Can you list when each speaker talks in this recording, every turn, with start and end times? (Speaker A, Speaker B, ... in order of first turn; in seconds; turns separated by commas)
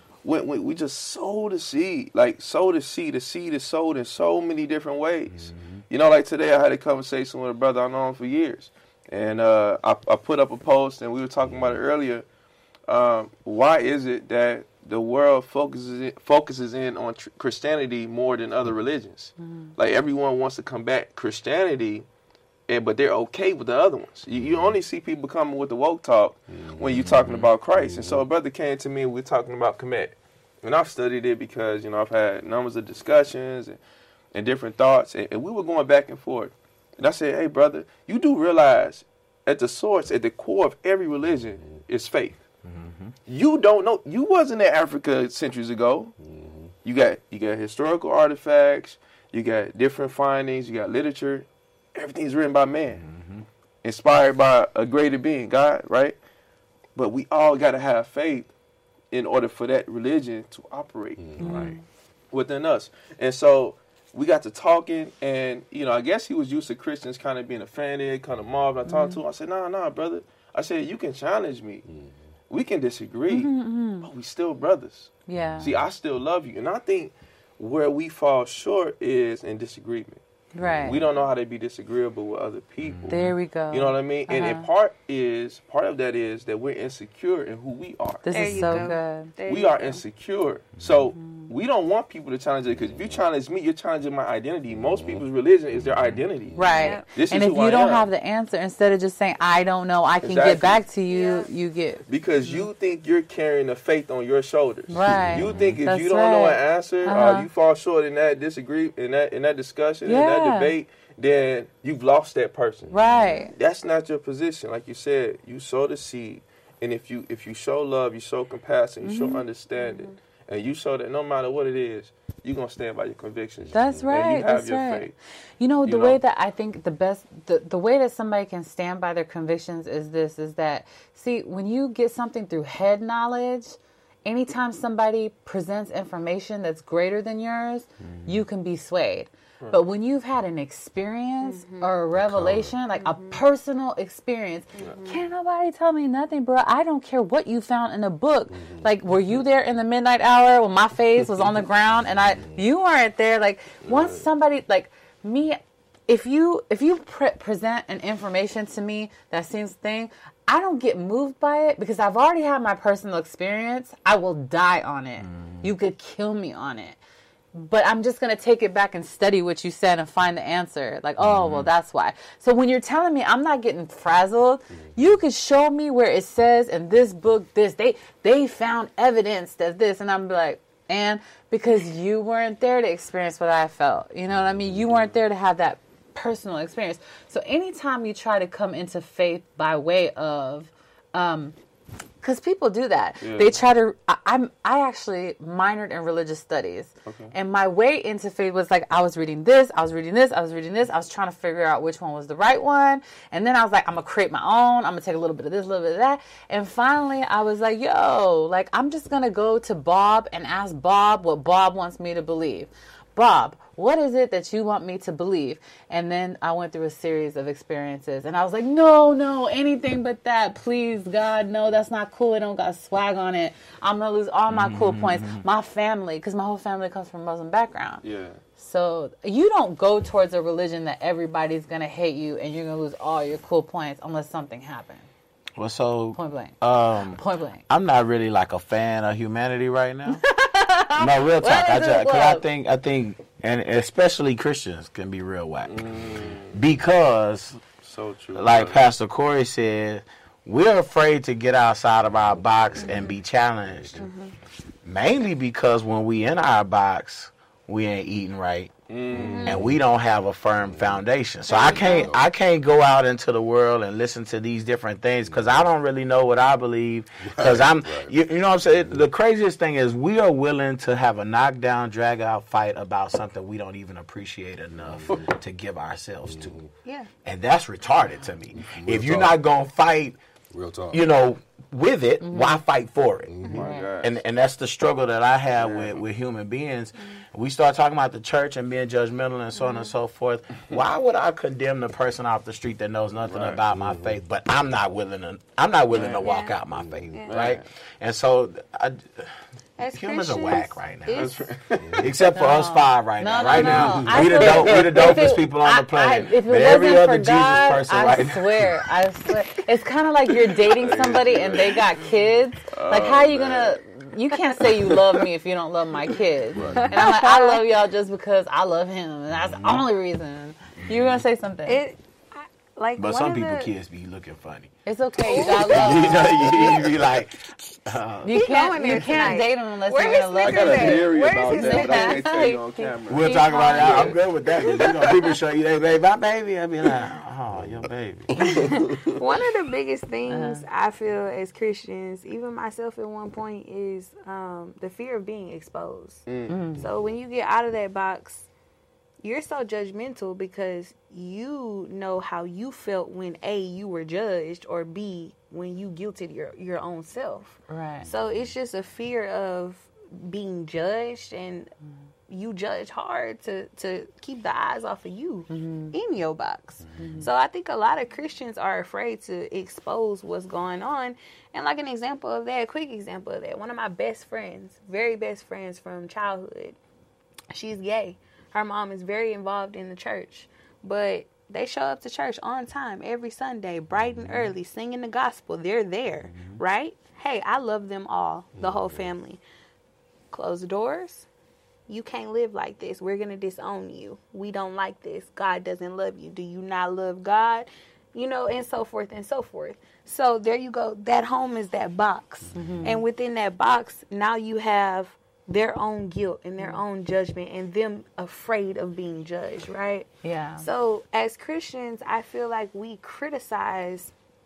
Speaker A: 0.2-12.2, Speaker B: 5.5-5.8, Speaker A: 12.9-22.1, Speaker C: 19.4-19.7, Speaker A: 22.7-33.8, Speaker D: 26.6-28.2, Speaker A: 34.3-42.4, Speaker B: 42.6-43.1, Speaker A: 43.3-46.1, Speaker D: 46.2-46.7, Speaker A: 46.8-53.0, Speaker B: 53.0-53.5, Speaker A: 53.8-56.2, Speaker A: 57.0-58.5, Speaker A: 59.1-61.6, Speaker D: 61.2-61.5, Speaker C: 61.4-61.8, Speaker B: 61.4-61.8, Speaker A: 62.3-71.9, Speaker C: 68.8-69.2, Speaker A: 72.5-80.2, Speaker C: 73.3-74.1, Speaker C: 75.3-75.6, Speaker B: 75.3-75.7, Speaker C: 80.5-81.0, Speaker A: 80.8-88.9, Speaker B: 82.8-83.2, Speaker C: 83.1-84.7, Speaker C: 88.2-89.3, Speaker E: 88.3-90.0, Speaker A: 89.5-98.1, Speaker C: 91.2-91.5, Speaker C: 96.5-102.7, Speaker E: 96.7-97.0, Speaker A: 100.2-100.8, Speaker E: 101.1-101.5, Speaker A: 102.1-113.0, Speaker C: 104.9-107.5, Speaker D: 105.0-105.8, Speaker C: 110.0-110.7, Speaker C: 112.9-113.5, Speaker E: 113.2-113.5, Speaker A: 113.5-125.1, Speaker C: 119.0-119.4, Speaker E: 119.8-120.1, Speaker D: 123.7-124.0, Speaker C: 123.7-125.1, Speaker C: 125.6-167.0, Speaker A: 125.8-126.2, Speaker E: 141.4-141.9, Speaker D: 142.2-142.7, Speaker E: 142.9-143.4, Speaker E: 144.8-145.2, Speaker D: 148.5-148.9, Speaker A: 153.9-154.2, Speaker B: 165.2-165.7, Speaker C: 167.5-191.5, Speaker B: 171.2-171.7, Speaker A: 184.8-185.2, Speaker C: 192.2-228.0, Speaker A: 193.2-193.6, Speaker A: 197.1-197.3, Speaker B: 224.5-225.4, Speaker A: 228.0-228.4, Speaker C: 228.6-235.1, Speaker B: 235.6-240.2, Speaker C: 236.1-237.6, Speaker C: 240.1-242.4, Speaker B: 240.9-247.6, Speaker A: 245.7-246.6, Speaker A: 247.8-248.8, Speaker B: 248.3-254.1, Speaker E: 252.8-253.2, Speaker E: 254.0-254.3, Speaker B: 254.8-258.7, Speaker A: 258.9-259.6, Speaker D: 259.1-259.7, Speaker E: 259.1-259.7, Speaker B: 259.4-276.5, Speaker E: 261.5-262.1, Speaker D: 261.5-262.2, Speaker D: 267.2-268.1, Speaker D: 268.7-269.0, Speaker D: 274.9-275.3, Speaker D: 276.3-276.7, Speaker B: 277.2-280.2, Speaker D: 278.6-279.3, Speaker D: 280.5-281.0, Speaker B: 280.9-299.4, Speaker C: 282.2-282.6, Speaker D: 283.3-283.7, Speaker A: 283.5-284.2, Speaker C: 283.5-283.9, Speaker A: 285.6-286.0, Speaker E: 289.6-289.9, Speaker A: 293.2-293.6, Speaker D: 293.7-294.1, Speaker A: 295.9-296.3, Speaker E: 296.2-296.6, Speaker D: 296.8-297.1, Speaker E: 297.1-297.5, Speaker A: 297.2-297.6, Speaker E: 299.8-301.5, Speaker B: 299.9-301.3, Speaker A: 301.1-302.1, Speaker D: 301.8-302.1, Speaker B: 301.9-308.7, Speaker C: 302.3-321.8, Speaker A: 304.3-305.2, Speaker A: 310.6-312.1, Speaker A: 312.7-313.8, Speaker D: 316.5-316.9, Speaker E: 316.8-317.6, Speaker B: 319.4-319.8, Speaker B: 320.8-321.2, Speaker E: 321.6-323.7, Speaker B: 323.0-328.4, Speaker C: 324.9-326.7, Speaker E: 325.3-326.7, Speaker A: 325.7-326.9, Speaker C: 328.2-332.9, Speaker E: 328.3-332.2, Speaker A: 330.4-335.1, Speaker B: 333.1-338.6, Speaker E: 333.2-334.2, Speaker E: 338.6-346.3, Speaker C: 340.3-340.6, Speaker A: 346.3-346.6, Speaker C: 346.5-346.9, Speaker E: 346.8-348.5, Speaker E: 349.2-361.7, Speaker C: 357.7-358.1, Speaker E: 362.3-376.8, Speaker C: 365.5-365.9, Speaker C: 367.0-367.3, Speaker E: 377.5-389.4, Speaker B: 386.3-386.6, Speaker D: 388.5-389.1, Speaker E: 390.3-391.2, Speaker E: 391.9-414.1, Speaker C: 402.5-403.0, Speaker C: 410.2-410.6